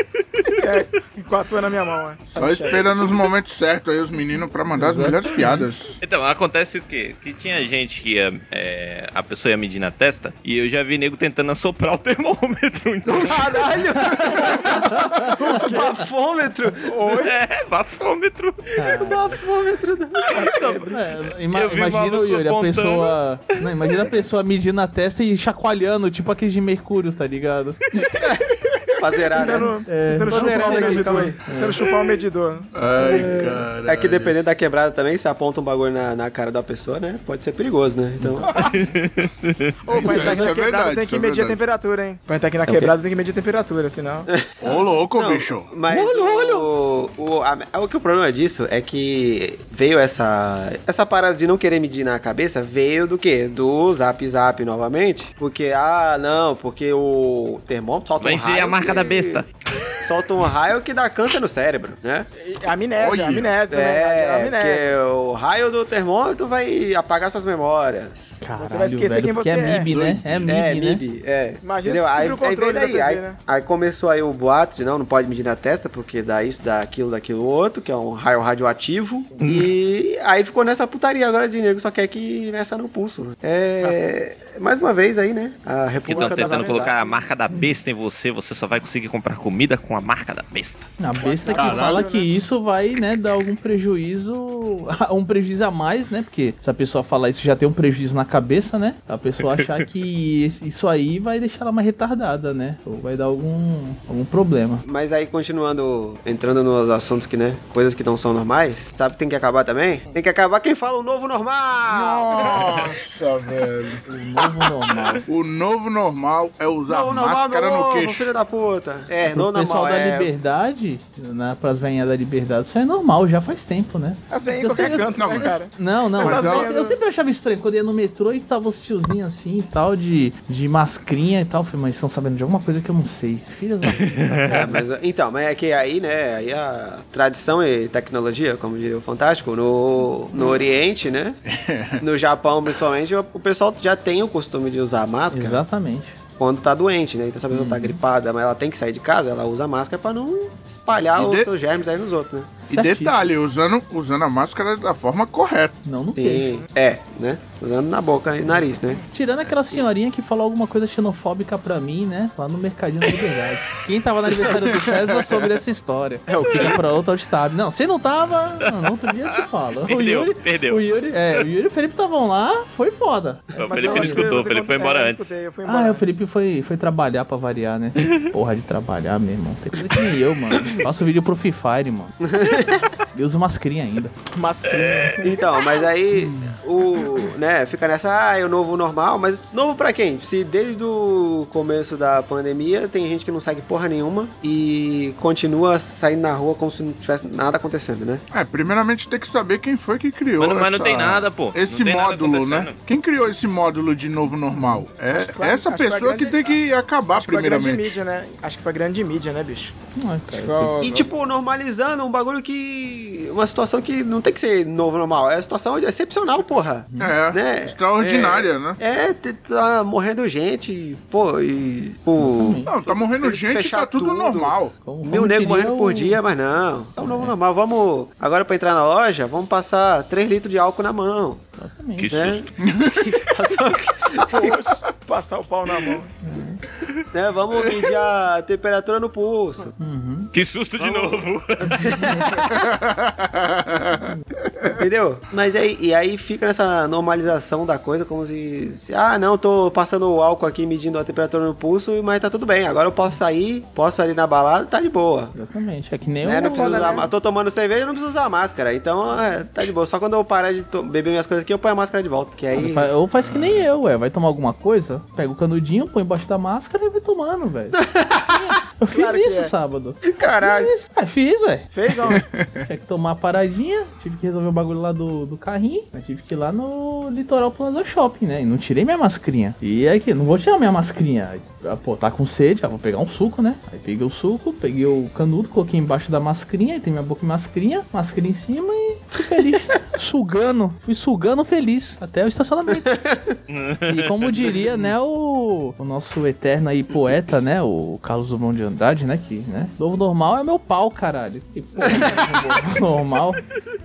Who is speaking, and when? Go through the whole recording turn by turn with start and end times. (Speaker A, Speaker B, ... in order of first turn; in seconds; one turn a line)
Speaker A: 0.6-3.1
Speaker B: 2.3-6.0
Speaker C: 4.8-5.7
Speaker D: 6.0-13.7
Speaker E: 13.1-17.2
Speaker A: 14.2-16.0
Speaker C: 14.7-15.3
Speaker A: 16.8-17.3
Speaker D: 17.2-18.7
Speaker C: 18.8-19.4
Speaker E: 18.9-20.9
Speaker D: 20.3-23.2
Speaker C: 20.9-27.8
Speaker E: 28.9-31.4
Speaker A: 29.3-32.7
Speaker C: 29.8-31.8
Speaker B: 32.7-34.4
Speaker E: 33.0-38.5
Speaker C: 38.2-38.7
Speaker A: 38.5-38.8
Speaker D: 38.7-39.7
Speaker A: 39.9-44.3
Speaker B: 39.9-41.6
Speaker E: 42.7-42.9
Speaker E: 44.3-59.4
Speaker B: 44.6-45.7
Speaker C: 45.9-46.6
Speaker D: 58.2-60.1
Speaker E: 60.0-62.3
Speaker A: 62.4-64.9
Speaker B: 63.0-63.5
Speaker E: 63.7-68.4
Speaker C: 68.4-71.0
Speaker A: 68.6-69.9
Speaker B: 69.9-70.6
Speaker E: 70.5-87.1
Speaker A: 71.6-73.4
Speaker D: 79.4-79.7
Speaker D: 86.1-90.9
Speaker A: 86.1-87.2
Speaker C: 91.0-104.8
Speaker A: 91.2-92.3
Speaker B: 91.5-92.1
Speaker E: 104.8-112.7
Speaker B: 111.9-114.0
Speaker C: 114.1-115.2
Speaker B: 115.3-118.3
Speaker E: 116.9-120.3
Speaker C: 119.2-134.7
Speaker A: 124.3-127.0
Speaker B: 125.1-125.6
Speaker B: 126.2-126.7
Speaker D: 134.0-134.5
Speaker E: 134.5-141.4
Speaker B: 141.5-142.0
Speaker E: 142.0-145.6
Speaker C: 145.3-146.2
Speaker E: 146.4-152.5
Speaker C: 147.5-148.0
Speaker B: 151.1-151.5
Speaker C: 152.6-153.3
Speaker B: 152.7-155.8
Speaker C: 155.8-156.6
Speaker E: 156.1-159.0
Speaker C: 159.1-174.3
Speaker E: 166.3-166.7
Speaker A: 166.4-166.8
Speaker D: 169.9-170.8
Speaker D: 173.6-175.3
Speaker A: 173.7-176.2
Speaker C: 175.7-182.2
Speaker E: 182.2-182.9
Speaker C: 183.1-184.2
Speaker A: 184.3-185.4
Speaker E: 185.2-198.2
Speaker B: 198.3-208.0
Speaker D: 200.4-202.8
Speaker C: 204.5-204.9
Speaker A: 205.1-206.6
Speaker A: 207.1-209.8
Speaker C: 210.0-210.8
Speaker A: 210.3-211.1
Speaker E: 210.8-231.4
Speaker B: 217.0-218.8
Speaker C: 222.2-222.7
Speaker B: 222.7-224.8
Speaker C: 224.8-226.2
Speaker C: 227.0-227.3
Speaker C: 231.6-232.3
Speaker D: 232.0-232.5
Speaker E: 232.1-234.7
Speaker B: 232.6-233.1
Speaker A: 234.3-236.1
Speaker C: 236.2-236.6
Speaker E: 237.1-239.7
Speaker C: 239.8-240.3
Speaker D: 240.3-241.9
Speaker E: 241.6-242.7
Speaker B: 242.6-244.0
Speaker C: 243.9-244.2
Speaker E: 244.7-255.3
Speaker C: 255.3-257.1
Speaker E: 256.2-262.9
Speaker A: 256.5-257.1
Speaker C: 262.5-271.7
Speaker B: 263.3-263.6
Speaker E: 267.7-268.4
Speaker A: 268.9-269.5
Speaker E: 270.1-270.7
Speaker A: 271.7-272.2
Speaker B: 272.1-272.6
Speaker C: 272.6-293.0
Speaker E: 292.7-293.4
Speaker D: 293.5-294.4
Speaker C: 293.9-303.4
Speaker A: 301.8-302.3